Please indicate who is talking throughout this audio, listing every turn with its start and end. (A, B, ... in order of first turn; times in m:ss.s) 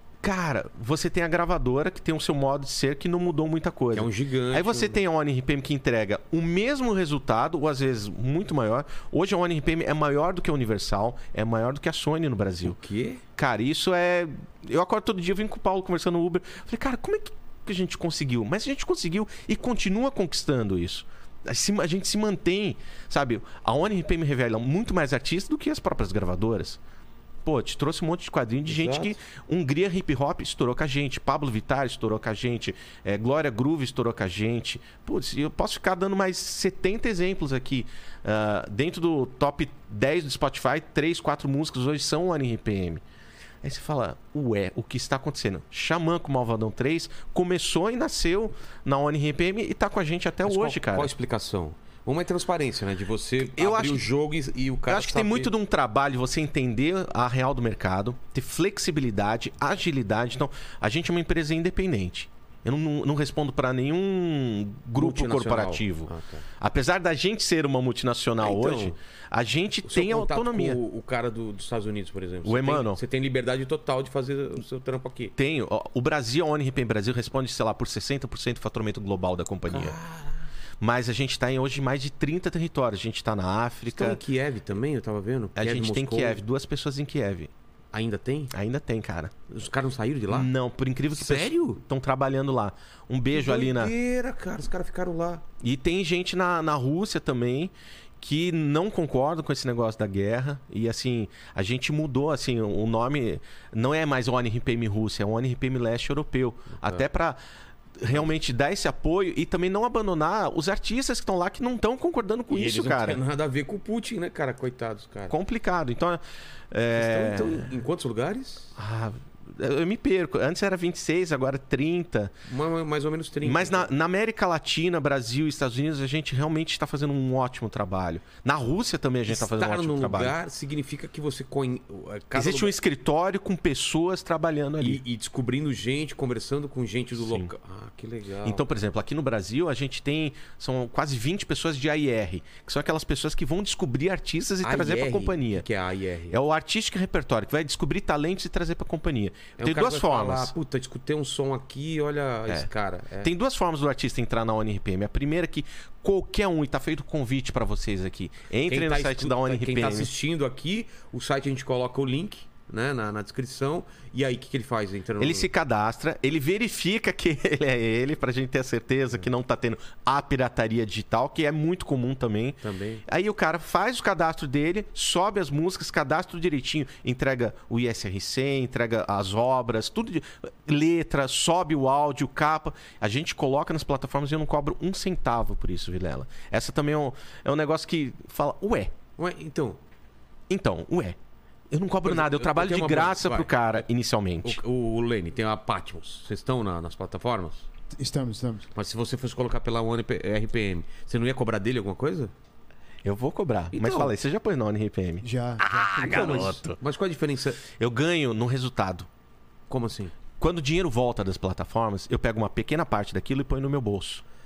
0:00.2-0:12.8 A
0:03.9-0:05.0 B
0:12.6-0:13.2 B
0:13.4-0:26.8 A
0:27.4-0:43.0 A
0:28.7-0:29.2 B
0:43.6-0:51.1 A
0:50.4-0:55.5 B
0:53.4-0:54.1 A
0:54.9-1:10.8 A
1:05.0-1:06.4 B
1:08.4-1:09.0 B
1:09.9-1:15.3 B
1:12.4-1:13.0 A
1:15.4-1:20.0 A
1:19.7-1:20.4 B
1:20.8-1:24.2 A
1:23.9-1:26.4 B
1:25.6-1:27.5 A
1:27.9-1:28.5 B
1:28.5-1:29.3 A
1:29.5-1:30.5 B
1:30.3-1:33.9 A
1:31.1-1:31.5 B
1:33.3-1:35.4 B
1:35.6-1:47.4 A
1:46.8-1:47.0 B
1:48.0-1:53.2 A
1:52.5-1:55.3 B
1:55.3-1:57.7 A
1:56.9-1:58.8 B
1:58.8-2:02.3 A
2:02.5-2:03.9 B
2:03.4-2:10.4 A
2:09.3-2:12.7 B
2:12.3-2:15.0 A
2:14.8-2:18.6 B
2:17.2-2:17.5 A
2:18.4-2:25.6 A
2:24.6-2:26.4 B
2:26.3-2:30.5 A
2:29.6-2:33.3 B
2:33.2-2:40.1 A
2:38.6-2:45.5 B
2:45.2-3:08.9 A
2:52.6-2:53.0 B
3:09.2-3:09.8 B
3:10.5-3:11.2 A
3:11.7-3:14.6 A
3:12.0-3:13.8 B
3:14.4-3:17.6 B
3:17.9-3:18.7 C
3:18.7-3:22.3 B
3:23.0-3:26.8 A
3:23.7-3:24.1 B
3:25.2-3:26.6 C
3:26.0-3:27.6 B
3:27.6-3:29.1 A
3:29.7-3:30.1 B
3:30.4-3:34.2 A